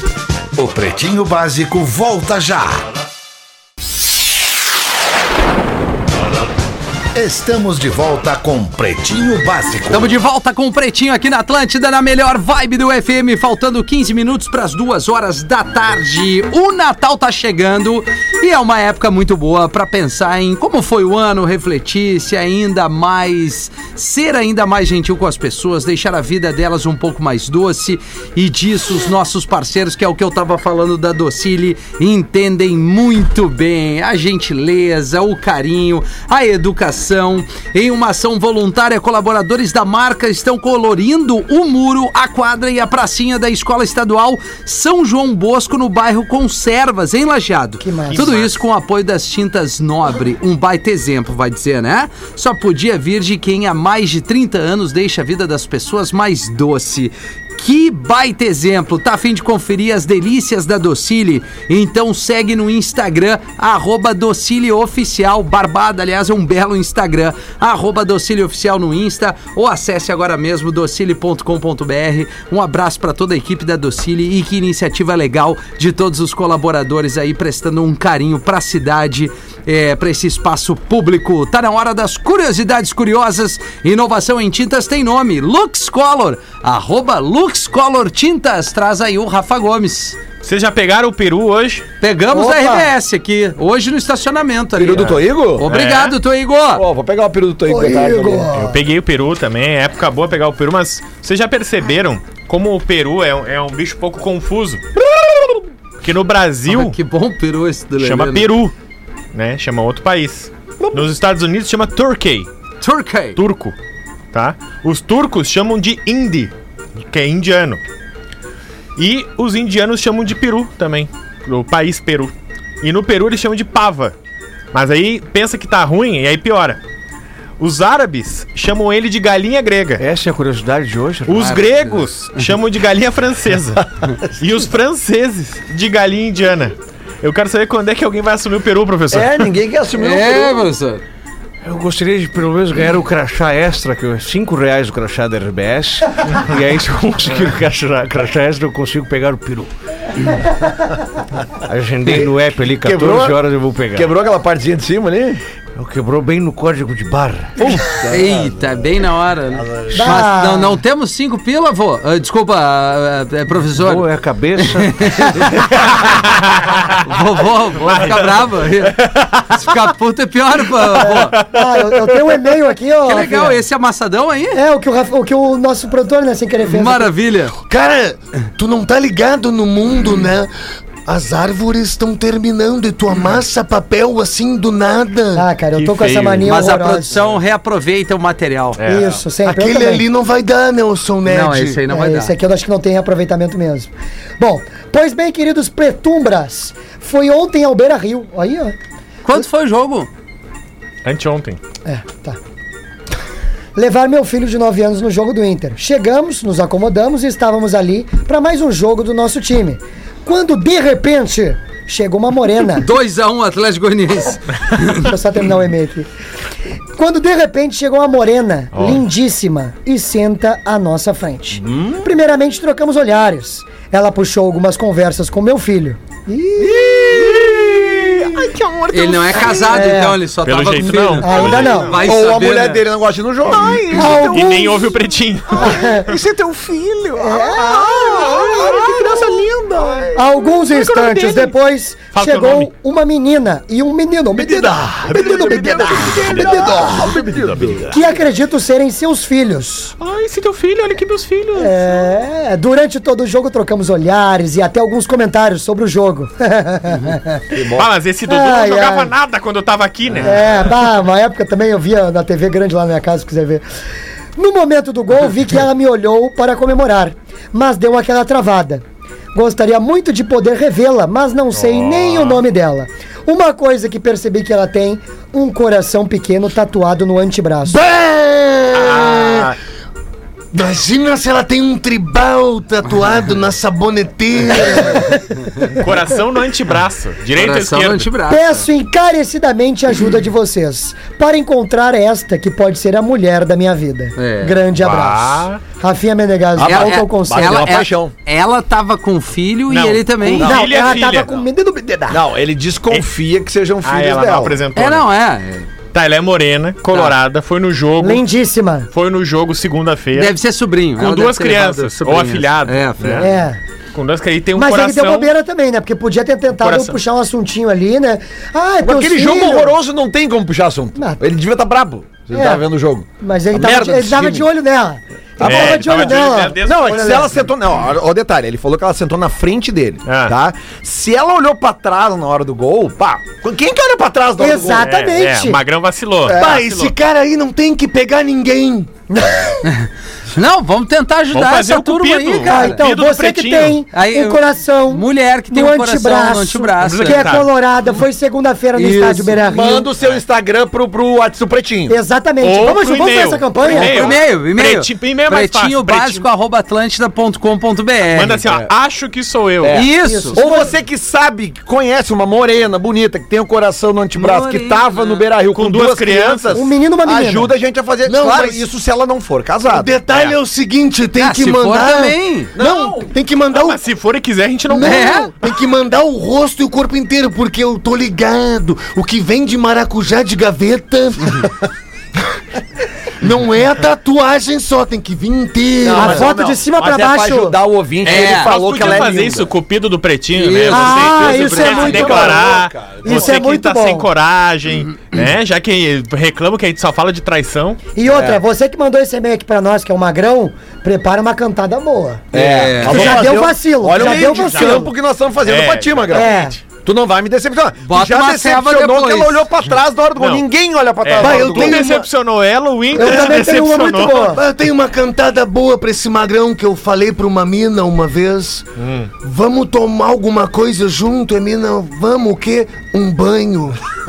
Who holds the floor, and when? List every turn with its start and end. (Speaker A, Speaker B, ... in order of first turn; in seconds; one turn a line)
Speaker A: 0.6-2.9
Speaker A: 7.2-10.1
Speaker B: 9.9-90.2
Speaker C: 47.8-48.3
Speaker D: 48.1-48.6
Speaker D: 90.4-91.9
Speaker B: 92.0-96.8
Speaker C: 92.3-92.9
Speaker E: 94.8-95.7
Speaker D: 95.6-96.2
Speaker E: 96.7-98.5
Speaker C: 97.7-98.8
Speaker D: 98.5-104.8
Speaker E: 105.0-105.6
Speaker D: 106.0-107.0
Speaker B: 106.7-108.5
Speaker D: 108.0-108.7
Speaker D: 109.3-112.5
Speaker B: 112.8-113.4
Speaker D: 113.4-113.8
Speaker D: 114.3-117.8
Speaker D: 119.0-124.2
Speaker D: 124.7-126.8
Speaker D: 127.6-130.0
Speaker F: 130.0-131.6
Speaker D: 131.3-139.5
Speaker B: 131.4-132.5
Speaker E: 139.1-140.7
Speaker B: 140.0-141.0
Speaker F: 141.6-149.7
Speaker F: 151.5-154.1
Speaker E: 152.1-152.3
Speaker E: 152.8-153.4
Speaker E: 153.9-155.4
Speaker F: 155.8-157.8
Speaker E: 157.6-158.5
Speaker B: 158.0-165.7
Speaker C: 159.9-160.8
Speaker F: 163.8-165.5
Speaker D: 166.1-167.0
Speaker B: 167.0-171.4
Speaker D: 167.8-168.5
Speaker C: 170.9-173.6
Speaker D: 171.5-172.1
Speaker B: 173.1-174.6
Speaker C: 174.5-177.1
Speaker B: 176.6-177.6
Speaker G: 177.7-180.5
Speaker G: 181.1-185.5
Speaker C: 185.3-187.1
Speaker D: 185.7-186.6
Speaker B: 186.4-188.8
Speaker D: 188.8-189.2
Speaker C: 188.9-190.1
Speaker G: 189.4-191.8
Speaker B: 191.2-192.3
Speaker C: 191.9-198.8
Speaker B: 199.2-200.1
Speaker D: 201.1-201.6
Speaker C: 201.8-202.4
Speaker C: 203.8-212.9
Speaker B: 212.8-215.1
Speaker C: 214.9-216.1
Speaker C: 217.0-226.9
Speaker D: 218.7-219.0
Speaker F: 221.7-222.0
Speaker F: 226.8-229.4
Speaker B: 228.9-232.8
Speaker C: 229.5-230.2
Speaker D: 230.4-232.1
Speaker C: 231.2-232.0
Speaker E: 232.0-234.1
Speaker F: 233.5-234.5
Speaker C: 233.9-235.0
Speaker D: 234.0-236.1
Speaker C: 235.5-236.1
Speaker F: 235.6-237.8
Speaker C: 237.2-238.5
Speaker G: 238.3-238.8
Speaker E: 238.4-240.0
Speaker F: 238.8-240.1
Speaker C: 240.1-247.1
Speaker D: 240.8-241.5
Speaker D: 242.1-242.7
Speaker E: 244.3-248.1
Speaker D: 245.1-248.1
Speaker C: 247.9-249.9
Speaker D: 250.0-252.1
Speaker C: 251.6-257.5
Speaker E: 257.5-257.9
Speaker D: 257.8-260.7
Speaker C: 258.3-259.1
Speaker E: 260.1-260.4
Speaker C: 260.2-263.6
Speaker C: 264.4-277.8
Speaker D: 271.5-272.4
Speaker G: 277.7-279.5
Speaker D: 278.7-279.6
Speaker G: 280.5-285.0
Speaker C: 284.7-285.2
Speaker D: 285.7-288.1
Speaker B: 287.4-288.7
Speaker C: 288.3-297.6
Speaker B: 294.2-294.6
Speaker D: 294.8-295.6
Speaker E: 296.6-298.1
Speaker B: 296.6-300.6
Speaker D: 299.7-301.3
Speaker C: 300.4-302.2
Speaker E: 302.1-304.6
Speaker D: 303.8-305.1
Speaker B: 304.8-305.7
Speaker D: 305.9-308.2
Speaker B: 306.9-307.1
Speaker C: 308.0-308.9
Speaker D: 308.9-310.4
Speaker B: 310.2-313.3
Speaker D: 311.0-313.3
Speaker C: 313.2-313.6
Speaker D: 313.9-315.3
Speaker C: 314.6-319.7
Speaker D: 316.6-317.0
Speaker E: 318.8-324.5
Speaker C: 321.0-321.2
Speaker C: 322.3-322.6
Speaker C: 323.2-327.4
Speaker E: 325.4-334.9
Speaker D: 325.4-327.2
Speaker D: 330.1-330.4
Speaker C: 334.4-335.6
Speaker D: 334.8-336.9
Speaker E: 336.3-336.6
Speaker G: 336.3-338.9
Speaker C: 339.1-339.6
Speaker B: 339.6-342.8
Speaker D: 341.3-343.8
Speaker C: 342.4-349.9
Speaker B: 343.9-347.4
Speaker D: 346.8-347.5
Speaker B: 348.8-349.4
Speaker E: 349.4-352.0
Speaker C: 351.9-354.2
Speaker D: 352.4-356.3
Speaker B: 353.7-358.4
Speaker D: 358.1-359.8
Speaker E: 359.6-370.0
Speaker B: 359.7-360.4
Speaker C: 359.8-360.7
Speaker B: 364.1-365.3
Speaker D: 365.5-366.6
Speaker C: 366.5-367.5
Speaker G: 368.1-368.6
Speaker G: 369.6-373.8
Speaker D: 370.1-370.4
Speaker B: 371.2-372.5
Speaker E: 372.6-373.1
Speaker D: 373.5-375.3
Speaker G: 374.7-381.5
Speaker B: 374.8-375.3
Speaker G: 383.2-386.2
Speaker E: 385.8-389.5
Speaker C: 385.9-387.6
Speaker B: 388.1-388.5
Speaker D: 388.1-397.8
Speaker B: 390.4-392.2
Speaker C: 390.7-394.1
Speaker E: 391.4-393.4
Speaker C: 398.0-402.3
Speaker E: 398.1-398.4
Speaker E: 402.3-411.8
Speaker B: 402.3-403.2
Speaker C: 402.8-404.9
Speaker D: 402.9-403.2
Speaker D: 404.0-404.9
Speaker D: 405.4-406.5
Speaker C: 406.1-406.6
Speaker B: 407.8-409.4
Speaker D: 410.2-410.4
Speaker D: 411.0-414.3
Speaker G: 411.2-412.1
Speaker C: 412.9-414.4
Speaker G: 413.0-413.3
Speaker G: 414.0-418.7
Speaker D: 418.8-419.1
Speaker G: 419.2-423.8